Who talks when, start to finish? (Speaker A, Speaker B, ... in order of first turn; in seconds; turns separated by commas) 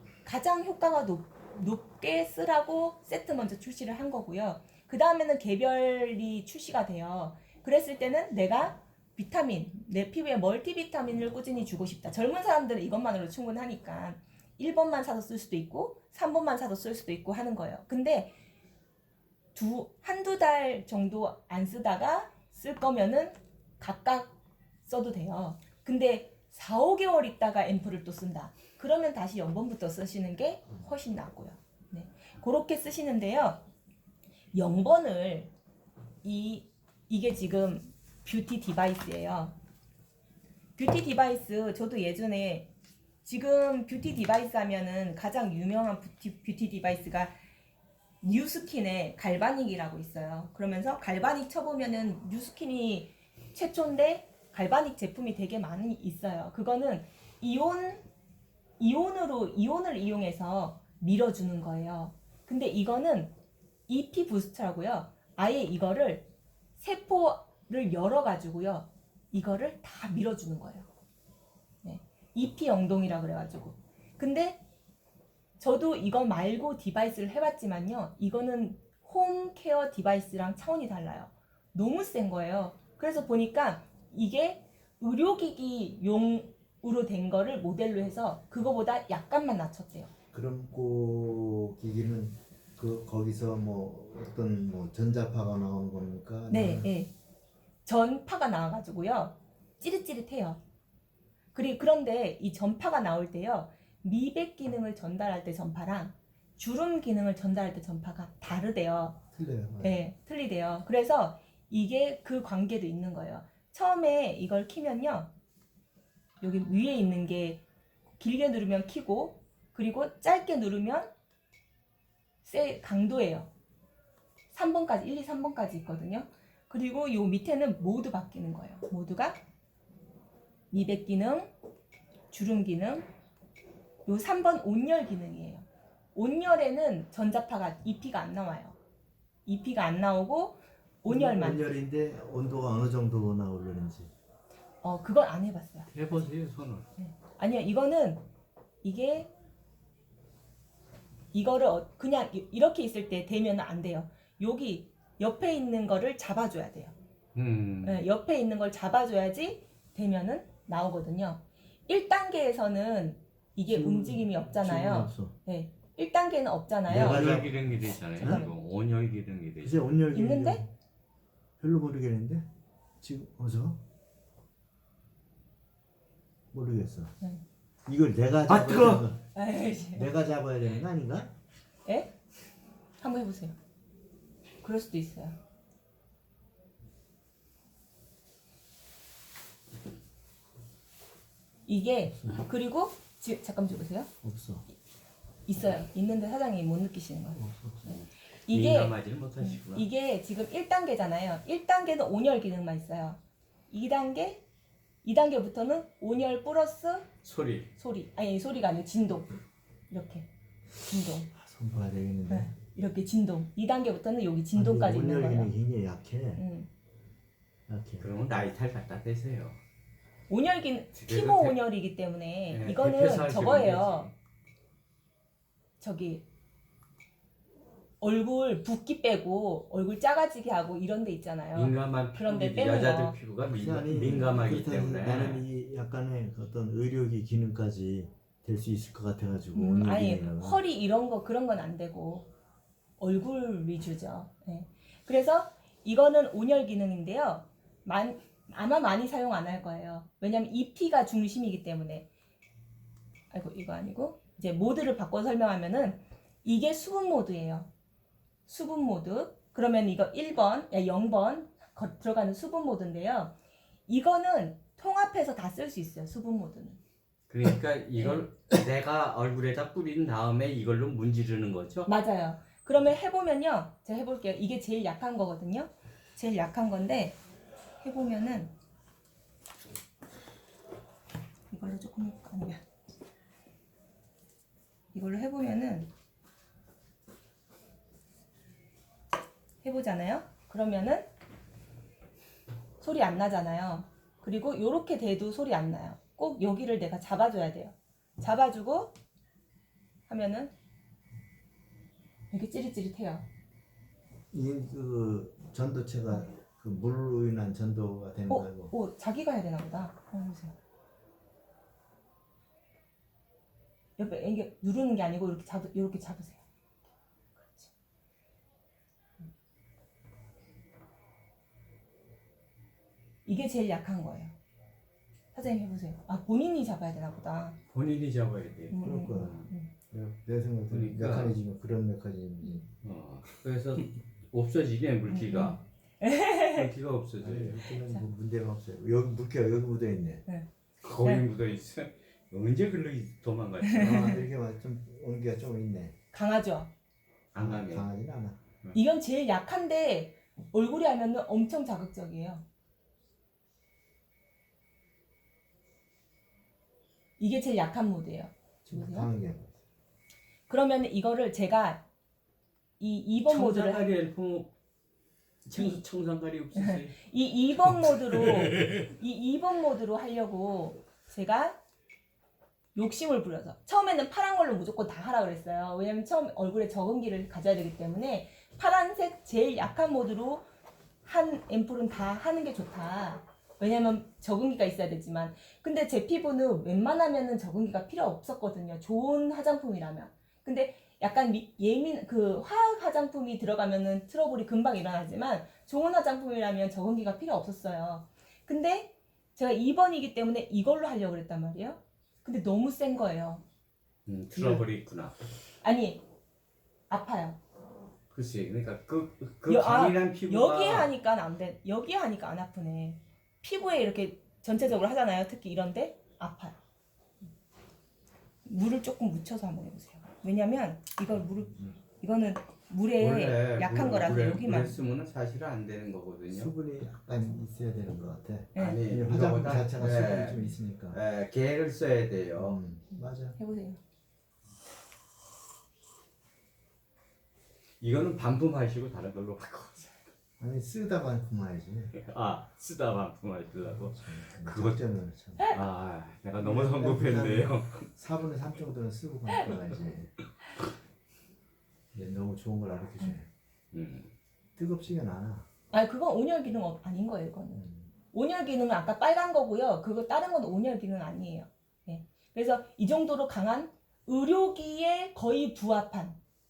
Speaker A: 0.2-18.3, Speaker A: 19.5-33.6, Speaker A: 34.5-35.5, Speaker A: 36.2-39.5, Speaker A: 40.8-42.7, Speaker A: 43.2-47.4, Speaker A: 48.2-58.0, Speaker A: 58.8-63.3, Speaker A: 63.9-66.3, Speaker A: 66.8-70.9, Speaker A: 71.8-74.6, Speaker A: 75.6-90.1, Speaker B: 90.3-96.9, Speaker A: 96.5-97.1, Speaker A: 97.8-100.6, Speaker A: 101.5-109.2, Speaker B: 109.3-110.0, Speaker A: 109.8-115.3, Speaker A: 116.4-117.6, Speaker A: 118.2-121.1, Speaker A: 122.4-123.5, Speaker A: 124.5-129.4, Speaker A: 130.7-131.5, Speaker A: 132.3-133.1, Speaker A: 134.1-138.8, Speaker A: 139.4-141.6, Speaker B: 141.0-144.1, Speaker A: 144.8-145.9, Speaker C: 145.9-146.9, Speaker A: 147.0-148.2, Speaker A: 148.8-149.3, Speaker A: 151.3-156.9, Speaker C: 157.3-158.0, Speaker A: 157.8-167.4, Speaker B: 163.7-165.3, Speaker B: 166.9-168.5, Speaker C: 166.9-169.8, Speaker A: 168.2-168.5, Speaker B: 169.6-170.7, Speaker A: 170.1-170.6, Speaker B: 171.6-172.5, Speaker B: 173.0-173.8, Speaker B: 176.5-177.1, Speaker B: 177.8-179.3, Speaker C: 178.5-179.1, Speaker A: 179.3-180.1, Speaker B: 179.9-181.3, Speaker A: 181.8-182.1, Speaker A: 183.0-183.6, Speaker A: 184.6-185.4, Speaker A: 191.7-194.1, Speaker B: 194.2-194.7, Speaker A: 195.4-203.2, Speaker B: 197.3-197.8, Speaker C: 197.9-199.8, Speaker A: 203.7-204.4, Speaker A: 205.0-207.1, Speaker C: 207.2-207.7, Speaker A: 207.8-209.3, Speaker A: 209.9-210.3, Speaker A: 210.8-211.3, Speaker B: 211.3-212.5, Speaker A: 212.3-215.5, Speaker B: 214.5-216.4, Speaker A: 216.3-216.7, Speaker B: 217.7-218.1, Speaker C: 218.0-219.6, Speaker A: 220.3-224.1, Speaker C: 220.9-221.6, Speaker C: 222.5-224.1, Speaker A: 225.8-226.2, Speaker A: 228.0-233.2, Speaker C: 231.5-235.4, Speaker B: 233.4-240.6, Speaker A: 239.5-242.3, Speaker A: 243.0-252.1, Speaker A: 253.3-257.7, Speaker A: 258.5-263.3, Speaker A: 263.9-266.8, Speaker C: 267.3-271.9, Speaker A: 268.0-268.2, Speaker A: 271.9-277.2, Speaker A: 277.8-278.5, Speaker A: 281.5-282.6, Speaker A: 284.9-285.9, Speaker A: 289.6-291.1, Speaker A: 292.8-299.0, Speaker A: 300.1-300.5, Speaker A: 302.3-303.2, Speaker B: 304.3-308.7, Speaker A: 308.3-310.6, Speaker A: 314.0-316.4, Speaker A: 317.4-317.7, Speaker A: 323.2-324.3, Speaker A: 325.3-327.6, Speaker C: 327.7-329.5, Speaker A: 328.7-329.7, Speaker B: 328.8-332.6, Speaker C: 330.7-331.4, Speaker C: 332.8-335.6, Speaker A: 335.1-336.7, Speaker C: 336.4-337.8, Speaker B: 337.2-340.2, Speaker C: 340.8-344.2, Speaker A: 343.6-344.2, Speaker B: 343.7-346.0, Speaker A: 346.1-346.7, Speaker C: 347.3-347.9, Speaker B: 347.4-348.4, Speaker A: 348.7-352.4, Speaker A: 357.2-359.1, Speaker B: 358.6-359.6, Speaker A: 360.5-361.8, Speaker A: 362.8-364.0, Speaker C: 363.2-364.5, Speaker C: 365.4-367.0, Speaker A: 365.6-365.8, Speaker A: 366.5-371.6, Speaker C: 367.8-368.8, Speaker A: 372.8-380.4, Speaker A: 381.0-403.4, Speaker C: 404.1-405.2, Speaker A: 405.6-406.0, Speaker A: 406.9-407.4, Speaker C: 408.1-410.9, Speaker A: 409.5-416.6, Speaker A: 418.4-424.8, Speaker C: 423.0-426.5, Speaker B: 426.3-431.0, Speaker A: 428.5-428.8, Speaker C: 428.5-432.6, Speaker B: 432.4-433.4, Speaker A: 432.9-433.8, Speaker C: 437.8-440.0, Speaker B: 440.4-441.9, Speaker C: 441.9-444.8, Speaker B: 443.7-445.5, Speaker C: 445.5-447.9, Speaker B: 446.4-450.1, Speaker B: 451.9-453.3, Speaker C: 453.7-454.1, Speaker B: 454.6-455.5, Speaker A: 455.7-466.2, Speaker B: 457.5-457.9